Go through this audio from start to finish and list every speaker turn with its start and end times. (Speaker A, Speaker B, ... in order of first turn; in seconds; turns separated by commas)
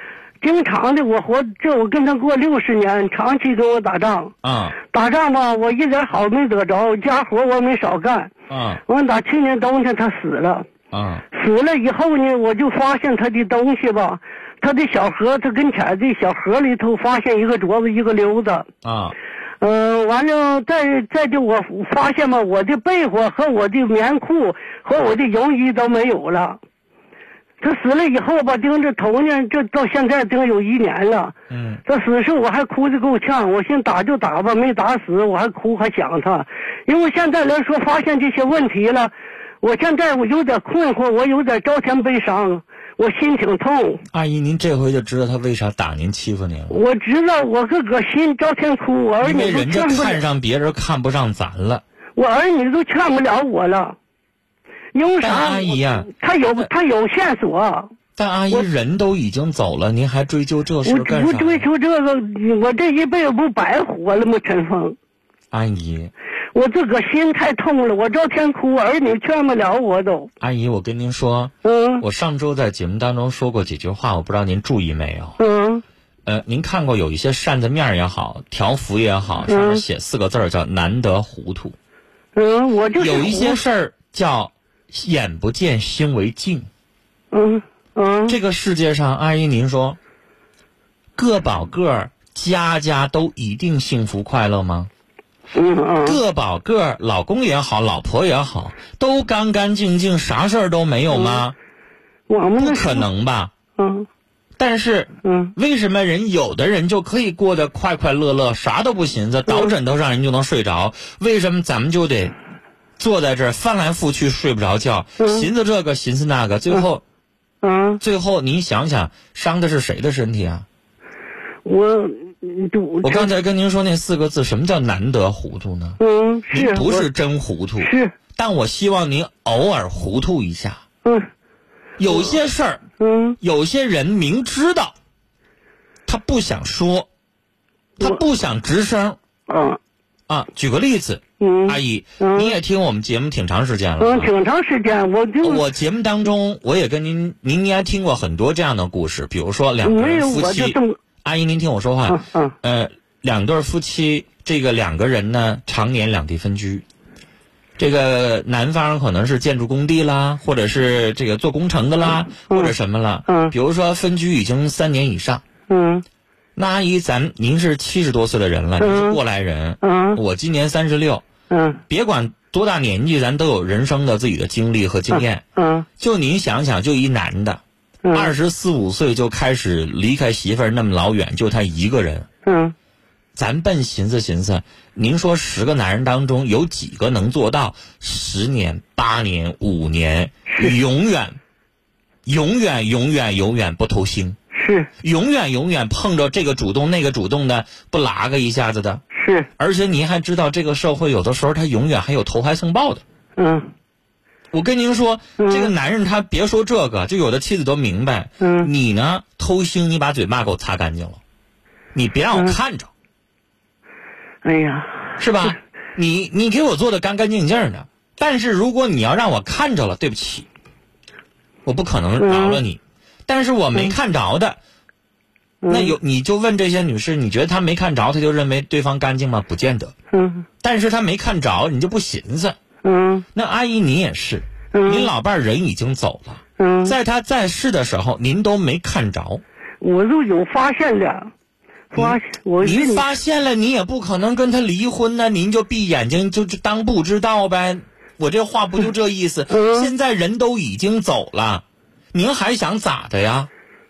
Speaker A: 0.4-4.3, Speaker B: 4.4-4.8, Speaker A: 4.9-8.3, Speaker B: 8.5-8.8, Speaker A: 8.9-10.7, Speaker B: 10.9-11.2, Speaker A: 11.3-18.6, Speaker B: 18.8-19.1, Speaker A: 19.6-26.6, Speaker A: 27.6-31.3, Speaker B: 31.5-31.8, Speaker A: 31.9-44.0, Speaker B: 44.1-46.8, Speaker A: 46.7-50.2, Speaker B: 49.2-51.8, Speaker A: 52.1-54.0, Speaker A: 54.9-57.9, Speaker B: 55.2-56.7, Speaker B: 58.1-61.6, Speaker A: 60.8-65.0, Speaker B: 65.5-66.1, Speaker A: 66.5-70.3, Speaker B: 70.4-75.4, Speaker A: 71.6-72.0, Speaker A: 75.4-75.8, Speaker B: 76.2-81.8, Speaker A: 79.5-79.8, Speaker A: 82.3-83.6, Speaker B: 83.0-86.7, Speaker A: 87.3-88.3, Speaker B: 88.3-90.0, Speaker B: 91.2-94.9, Speaker A: 95.5-96.2, Speaker B: 96.0-101.5, Speaker A: 101.1-101.4, Speaker A: 102.3-103.1, Speaker B: 102.6-103.5, Speaker A: 103.8-104.1, Speaker B: 104.6-112.3, Speaker A: 105.2-105.5, Speaker B: 113.0-117.0, Speaker A: 115.2-115.5, Speaker A: 117.6-118.0, Speaker B: 118.0-120.7, Speaker A: 121.6-123.3, Speaker B: 123.0-126.0, Speaker A: 126.0-127.1, Speaker B: 126.5-130.8, Speaker A: 127.8-128.1, Speaker B: 132.0-132.8, Speaker A: 133.0-133.4, Speaker B: 133.4-134.9, Speaker B: 136.1-137.1, Speaker B: 138.0-139.2, Speaker A: 139.5-139.8, Speaker B: 140.3-144.3, Speaker A: 141.4-142.5, Speaker A: 144.0-145.6, Speaker B: 145.4-156.8, Speaker A: 149.8-151.0, Speaker A: 152.1-152.5, Speaker B: 157.8-165.4, Speaker A: 162.5-162.7, Speaker A: 163.3-163.5, Speaker A: 165.7-166.0, Speaker B: 166.6-171.2, Speaker A: 168.8-169.2, Speaker A: 169.8-170.2, Speaker A: 171.5-171.8, Speaker B: 171.9-175.4, Speaker A: 175.1-175.9, Speaker B: 176.0-177.6, Speaker A: 178.0-178.3, Speaker B: 178.1-182.3, Speaker A: 182.4-182.7, Speaker B: 183.3-191.4, Speaker B: 192.2-194.4, Speaker A: 194.5-194.9, Speaker B: 195.0-199.0, Speaker A: 199.1-199.5, Speaker B: 199.6-203.0, Speaker A: 203.4-203.7, Speaker B: 204.5-211.2, Speaker A: 205.4-205.7, Speaker A: 208.4-208.7, Speaker B: 211.9-212.9, Speaker A: 214.4-215.2, Speaker B: 215.2-220.5, Speaker B: 221.7-224.6, Speaker A: 222.2-222.6, Speaker A: 225.6-225.9, Speaker B: 225.7-229.9, Speaker A: 230.1-230.4, Speaker B: 230.6-232.6, Speaker A: 232.8-233.2, Speaker B: 233.3-239.4, Speaker A: 234.7-235.1, Speaker A: 236.6-236.9, Speaker A: 239.8-241.3, Speaker A: 241.9-243.1, Speaker B: 241.9-253.5, Speaker A: 249.5-249.9